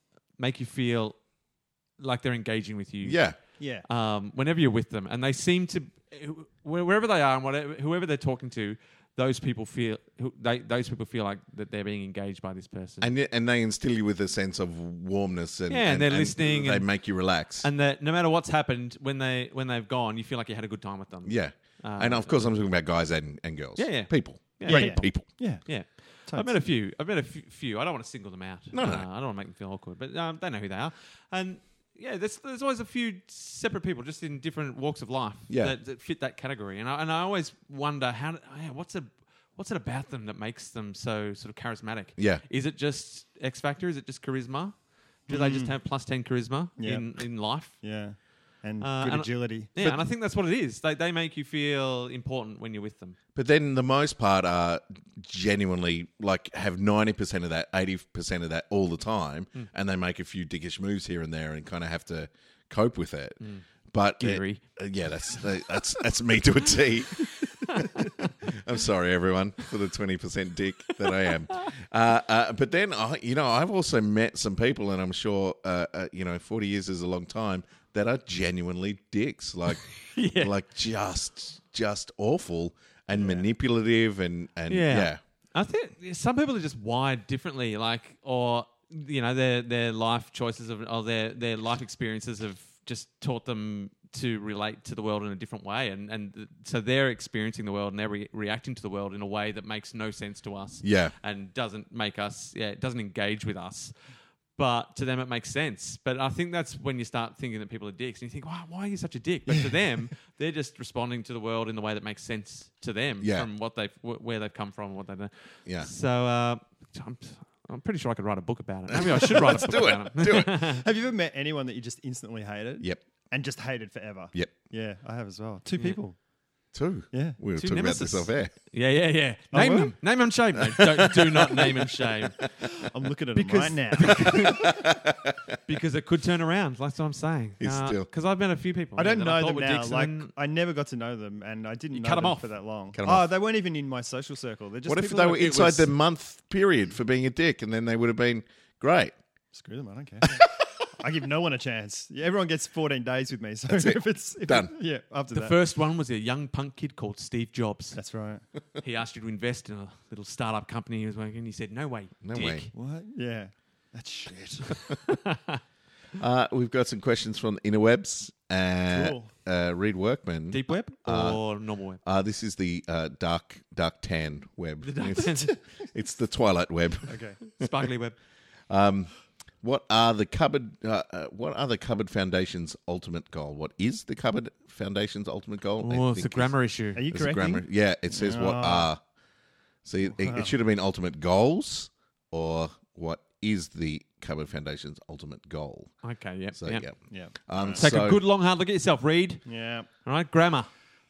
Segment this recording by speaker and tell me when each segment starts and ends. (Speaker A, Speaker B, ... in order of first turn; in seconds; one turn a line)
Speaker A: 0.4-1.2
Speaker A: 2.0-13.1
Speaker B: 3.0-3.4
Speaker C: 3.6-3.9
Speaker B: 13.0-17.7
Speaker A: 15.7-22.6
Speaker B: 21.2-25.2
Speaker A: 23.8-47.8
Speaker C: 24.7-26.6
Speaker B: 28.7-29.1
Speaker B: 35.5-35.7
Speaker B: 42.2-42.4
Speaker C: 45.3-45.7
Speaker C: 46.8-50.0
Speaker A: 48.8-53.2
Speaker B: 53.4-63.4
Speaker A: 63.4-63.6
Speaker B: 63.9-85.2
Speaker A: 64.2-64.8
Speaker A: 67.6-68.1
Speaker A: 80.1-80.5
Speaker A: 84.7-103.9
Speaker B: 100.8-101.1
Speaker A: 104.5-120.8
Speaker C: 109.5-109.8
Speaker B: 113.2-113.5
Speaker B: 118.9-120.5
Speaker C: 119.4-119.8
Speaker C: 120.5-126.2
Speaker B: 126.7-128.5
Speaker C: 127.1-127.4
Speaker A: 127.6-132.6
Speaker C: 129.5-130.0
Speaker B: 131.1-131.7
Speaker C: 132.8-134.7
Speaker A: 133.3-134.7
Speaker B: 134.1-135.5
Speaker A: 135.7-140.3
Speaker B: 137.6-138.1
Speaker C: 138.9-145.9
Speaker A: 141.9-142.5
Speaker B: 142.9-143.3
Speaker B: 144.9-149.1
Speaker C: 149.5-155.6
Speaker B: 153.7-154.7
Speaker A: 155.3-158.0
Speaker C: 157.9-158.4
Speaker A: 158.8-162.7
Speaker B: 162.2-162.7
Speaker C: 162.7-164.9
Speaker A: 165.1-165.6
Speaker B: 166.2-171.4
Speaker C: 168.9-169.3
Speaker A: 170.5-172.0
Speaker B: 172.0-177.7
Speaker A: 174.8-175.6
Speaker C: 177.1-177.4
Speaker A: 177.5-178.2
Speaker B: 178.7-189.0
Speaker A: 185.8-187.1
Speaker C: 186.9-188.9
Speaker B: 189.8-195.9
Speaker C: 190.1-190.5
Speaker A: 196.0-197.1
Speaker B: 196.6-198.2
Speaker C: 197.1-197.8
Speaker A: 197.7-200.7
Speaker C: 199.4-199.9